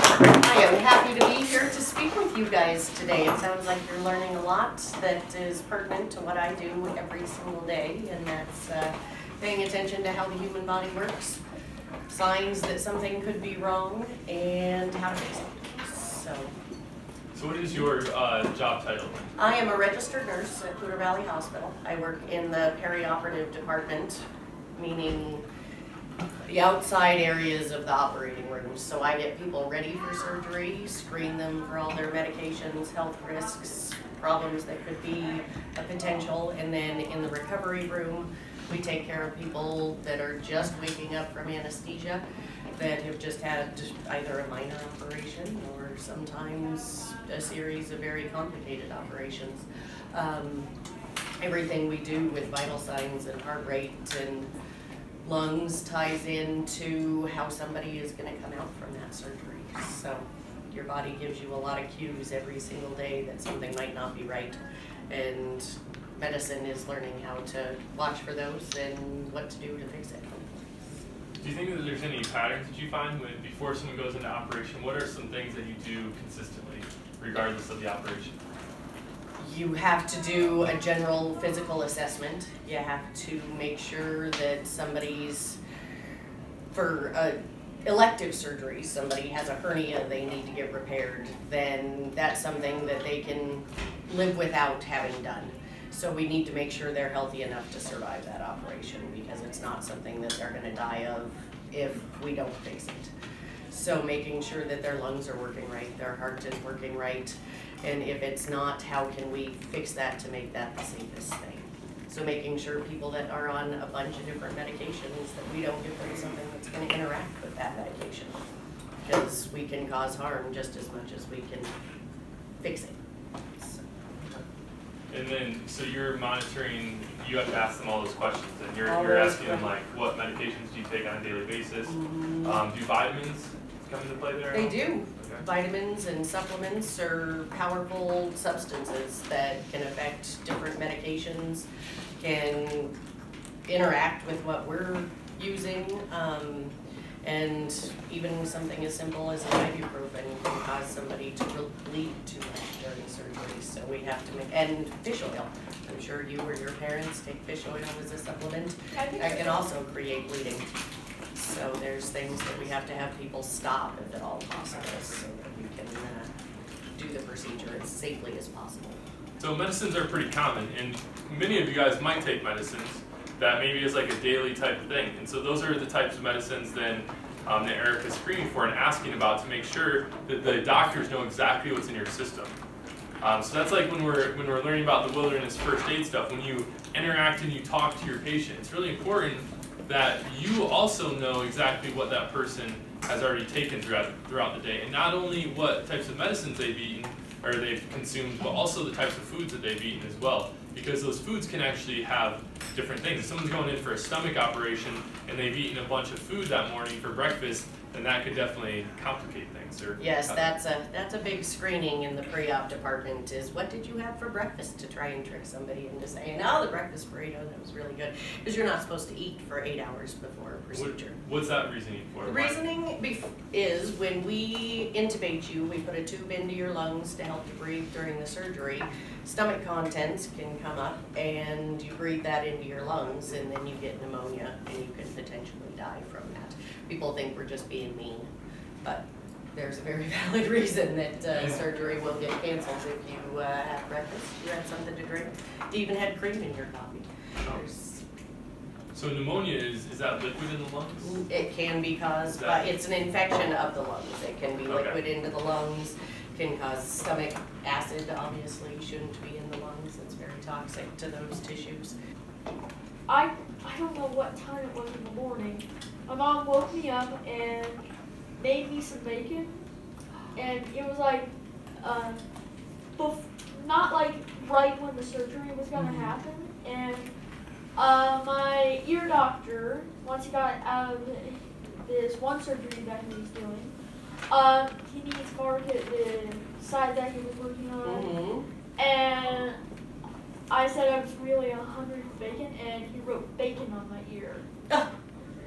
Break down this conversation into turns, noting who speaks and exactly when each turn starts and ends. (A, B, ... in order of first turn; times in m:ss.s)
0:00.4-0:11.4 A
0:12.1-0:16.5 A
0:17.3-0:19.3 B
0:19.4-0:24.2 A
0:24.7-0:25.4 A
0:26.4-0:50.7 A
0:51.4-0:54.5 A
0:55.2-1:10.7 A
1:11.4-1:18.4 B
1:19.4-1:25.6 A
1:26.7-1:43.1 A
1:43.7-1:58.4 A
1:59.0-2:01.7 A
2:02.6-2:03.0 A
2:03.6-2:04.4 A
2:05.1-2:15.4 B
2:08.8-2:09.7 A
2:11.8-2:12.6 A
2:14.5-2:21.6 A
2:22.2-2:22.9 A
2:23.7-2:40.7 A
2:38.9-2:39.7 C
2:41.3-2:46.3 A
2:46.9-2:49.0 A
2:49.4-3:02.5 B
3:03.2-3:30.5 B
3:30.0-3:41.2 A
3:40.7-3:42.6 B
3:42.2-3:58.3 A
3:58.8-4:08.0 A
4:08.9-4:11.2 B
4:11.0-4:21.9 A
4:12.4-4:12.6 B
4:14.7-4:15.0 B
4:23.1-4:27.8 C
4:28.4-4:29.6 C
4:30.3-4:32.2 C
4:33.0-4:37.1 C
4:35.7-4:36.1 A
4:37.8-4:43.7 C
4:44.3-4:48.2 C
4:47.8-4:48.4 A
4:48.8-4:49.6 C
4:50.5-4:54.4 C